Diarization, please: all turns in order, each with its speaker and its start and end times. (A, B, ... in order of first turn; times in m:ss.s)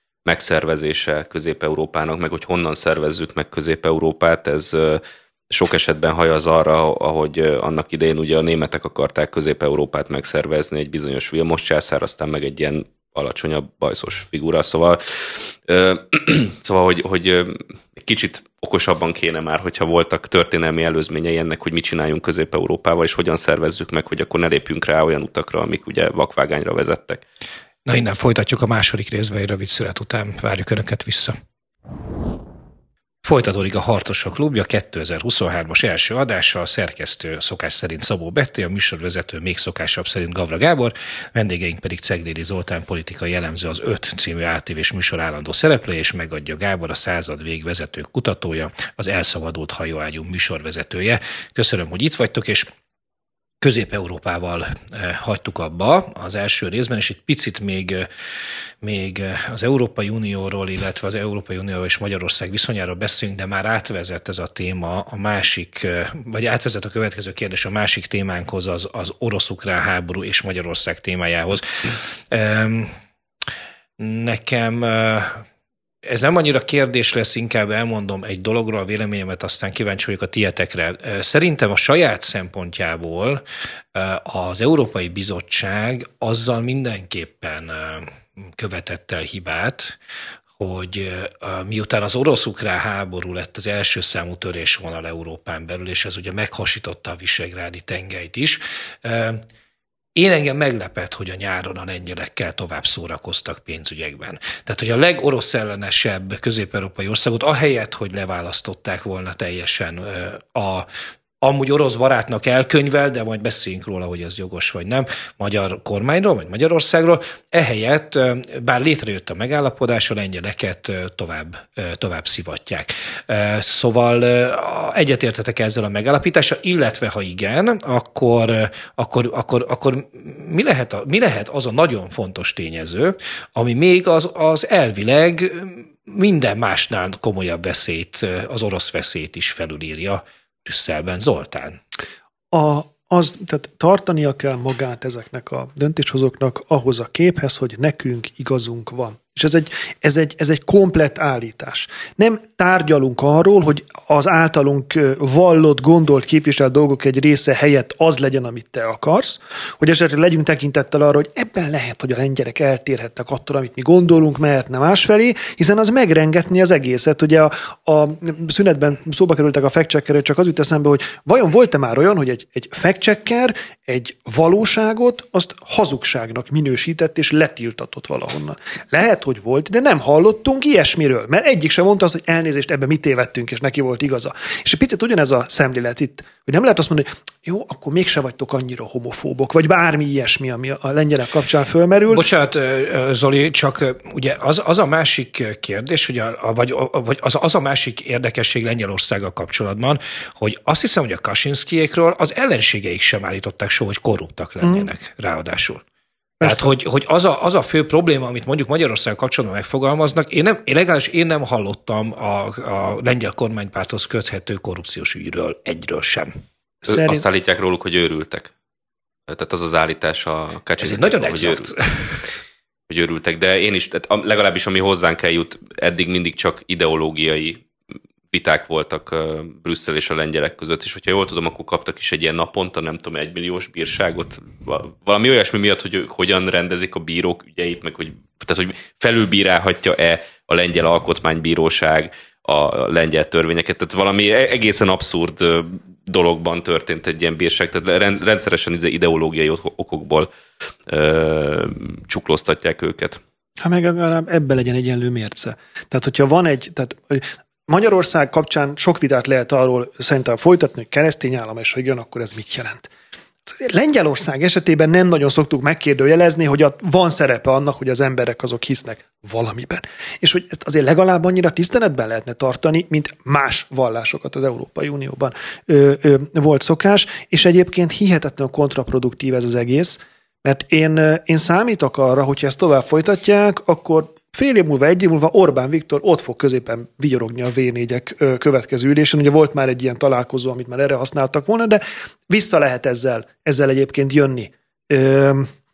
0:00.2-0:27.2 A
0:27.8-0:31.3 B
0:33.2-0:52.7 B
0:53.6-0:58.1 B
0:58.8-1:12.9 B
1:14.0-1:15.4 B
1:16.0-1:23.4 B
1:23.9-1:30.0 B
1:30.6-1:39.4 B
1:40.2-1:50.9 B
1:51.4-2:21.8 B
2:22.5-3:12.3 C
3:12.1-3:25.8 B
3:24.6-3:24.9 C
3:26.4-3:26.7 C
3:26.4-3:36.3 B
3:36.8-3:37.2 C
3:36.9-3:38.5 A
3:39.3-3:41.7 A
3:40.8-3:42.3 B
3:42.9-3:47.6 A
3:48.3-4:10.3 A
4:10.9-4:13.2 A
4:13.6-4:22.9 C
4:23.4-4:55.5 C